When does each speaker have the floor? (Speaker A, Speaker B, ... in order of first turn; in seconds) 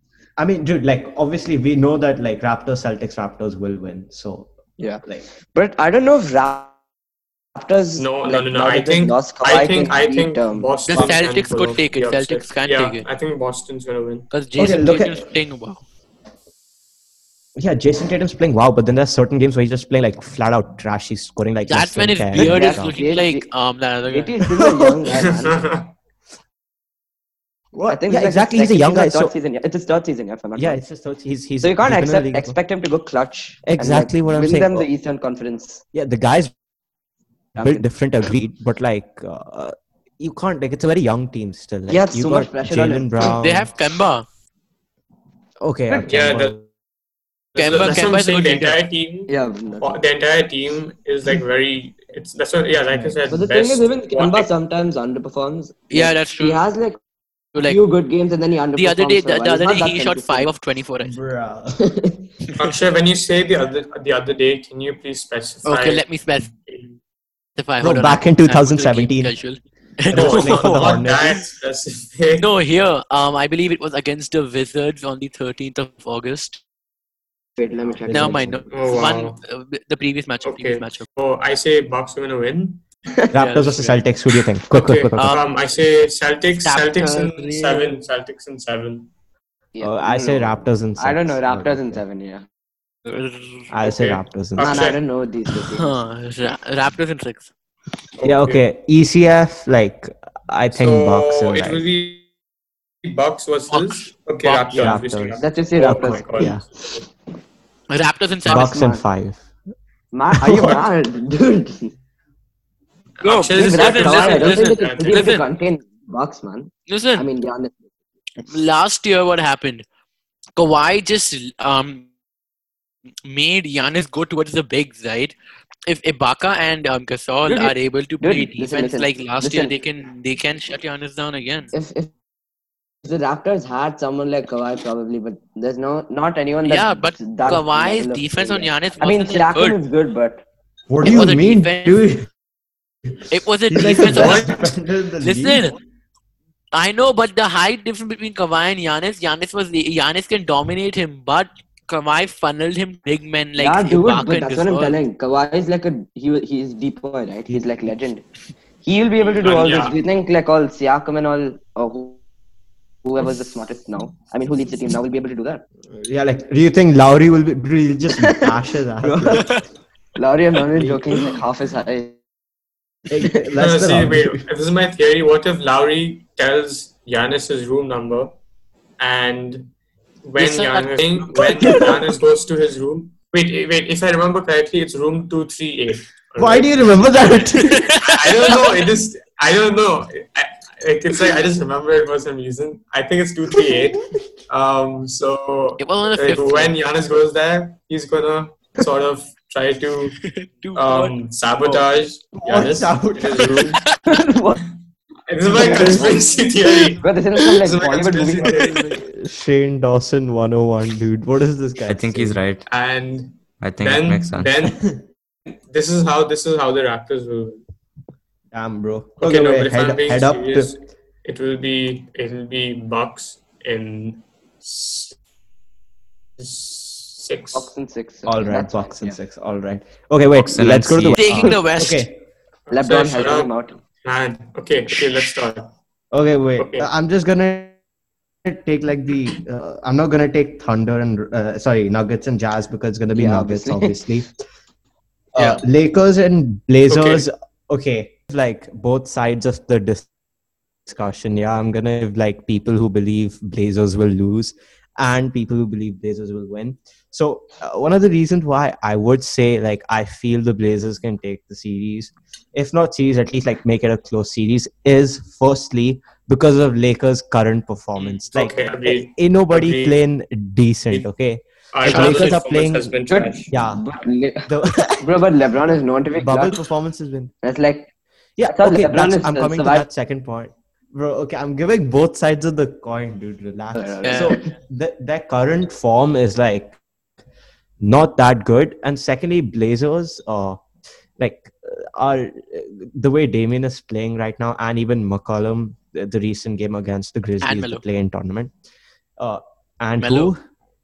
Speaker A: 0.4-4.5, 14.6-15.2, 17.6-23.0, 24.5-25.0, 27.7-29.3, 30.6-32.6, 33.7-34.9, 35.9-36.5, 37.6-43.7, 45.6-46.6, 52.9-53.2, 61.0-61.8, 67.8-69.3, 70.1-71.4, 77.9-78.7, 83.3-85.4, 89.8-92.0, 93.7-94.8, 98.2-101.8, 104.8-106.6, 108.5-109.4, 110.4-110.8, 140.9-142.3, 143.7-145.7, 157.5-158.0, 165.9-169.5, 170.7-171.1, 173.1-174.4, 186.4-187.9, 202.4-203.7, 205.6-206.2, 208.5-212.4, 218.5-220.7, 228.2-232.2, 236.1-237.8, 238.4-244.3, 245.3-250.1, 250.9-272.9, 273.5-273.8, 274.5-275.2, 276.2-277.3, 278.4-286.8, 287.8-290.6, 291.2-298.5, 299.2-300.4
Speaker B: 4.8-6.7, 7.5-10.7, 22.3-23.5, 24.1-25.6, 27.9-30.8, 31.6-35.8, 37.6-37.8, 41.9-43.2, 49.3-50.0, 53.3-57.0, 57.6-60.5, 61.8-62.2, 77.6-78.5, 89.8-92.5, 94.6-96.0, 105.4-106.6, 108.5-109.0, 110.1-111.9, 113.6-117.7, 127.5-129.7, 131.7-132.1, 133.0-140.4, 153.6-158.2, 158.8-162.2, 163.1-165.6, 168.1-169.6, 170.2-172.2, 181.3-181.9, 204.1-204.6, 205.5-206.3, 206.9-208.6, 227.5-229.2, 232.7-233.8, 243.1-244.0, 273.1-274.5, 275.0-276.6, 277.4-277.9, 278.5-279.9, 283.8-284.5
Speaker C: 8.0-14.3, 25.1-25.9, 46.1-46.6, 47.5-54.5, 62.6-67.0, 70.1-72.5, 78.7-79.4, 80.4-82.8, 84.7-89.1, 93.8-95.0, 98.2-98.6, 100.7-102.3, 103.0-107.0, 113.2-115.2, 144.0-144.7, 159.2-160.0, 173.6-178.3, 179.0-179.7, 180.2-200.2, 200.8-203.8, 205.3-208.9, 212.7-214.8, 215.7-217.6, 219.2-225.2, 226.4-227.7, 232.7-235.7, 236.6-236.9, 246.9-247.3, 268.3-270.0, 271.7-273.5
Speaker D: 10.9-13.1, 14.3-15.8, 21.7-24.4, 43.2-44.2, 47.6-48.8, 55.9-56.6, 57.5-57.8, 58.7-61.1, 65.7-66.5, 67.6-70.9, 72.4-76.6, 78.1-81.0, 83.3-84.0, 85.2-85.5, 86.6-88.0, 93.1-93.7, 95.6-97.5, 103.7-105.0, 107.9-108.8, 113.2-115.5, 116.9-117.3, 118.5-119.8, 120.6-122.1, 123.2-125.3, 125.9-131.7, 136.7-139.8, 141.0-142.0, 143.3-144.6, 145.2-145.8, 146.7-155.0, 180.4-181.9, 187.6-188.6, 195.8-196.8, 200.2-201.8, 231.1-232.1, 245.4-245.6, 271.9-272.4, 284.0-284.4, 297.4-297.8, 300.0-300.3
Speaker E: 211.9-212.7, 213.6-214.5, 230.4-231.4